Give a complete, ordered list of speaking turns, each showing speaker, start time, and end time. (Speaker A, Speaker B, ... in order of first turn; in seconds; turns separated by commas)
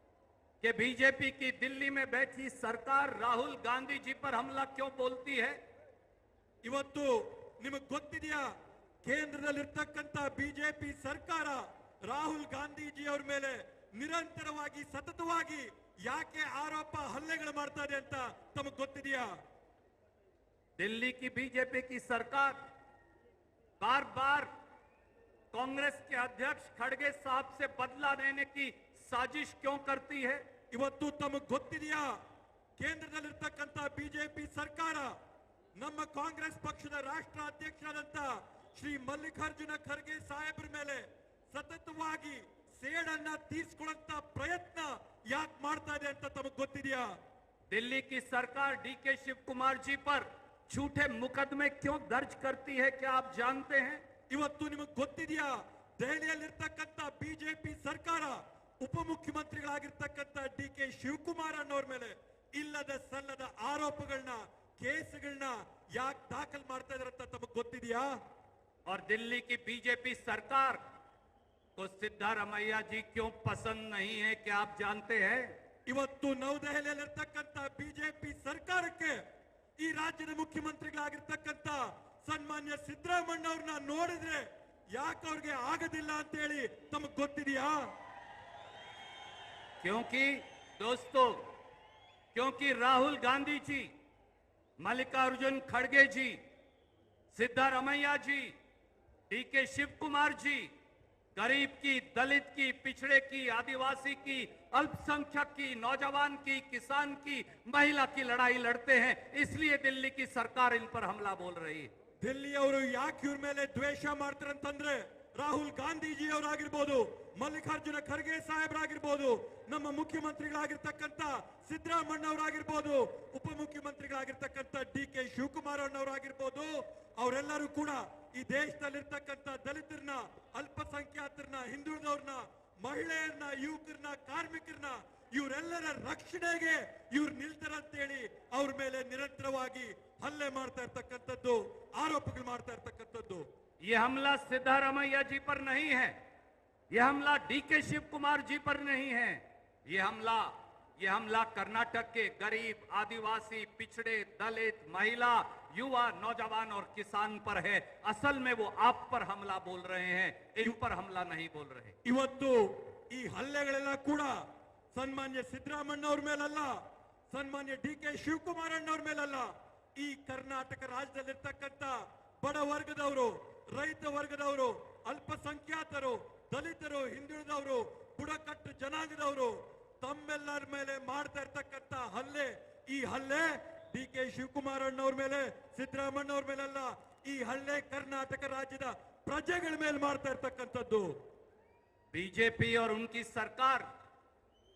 Speaker A: 0.6-5.6, Speaker B: 6.6-8.5, Speaker B: 9.0-19.3, Speaker A: 20.8-22.6, Speaker A: 23.8-24.5, Speaker A: 25.5-30.4, Speaker B: 30.7-32.1, Speaker B: 32.8-35.1, Speaker B: 35.8-47.2, Speaker A: 47.7-54.0, Speaker B: 54.3-68.2, Speaker A: 68.8-70.8, Speaker A: 71.8-75.5, Speaker B: 75.8-79.2, Speaker B: 79.8-87.9, Speaker A: 89.8-91.5, Speaker A: 92.3-93.9, Speaker A: 94.8-96.4, Speaker A: 97.3-98.5, Speaker A: 99.3-100.7, Speaker A: 101.3-111.9, Speaker B: 112.2-143.5, Speaker A: 143.8-146.2, Speaker A: 146.9-161.9, Speaker B: 162.0-191.2, Speaker A: 192.1-193.9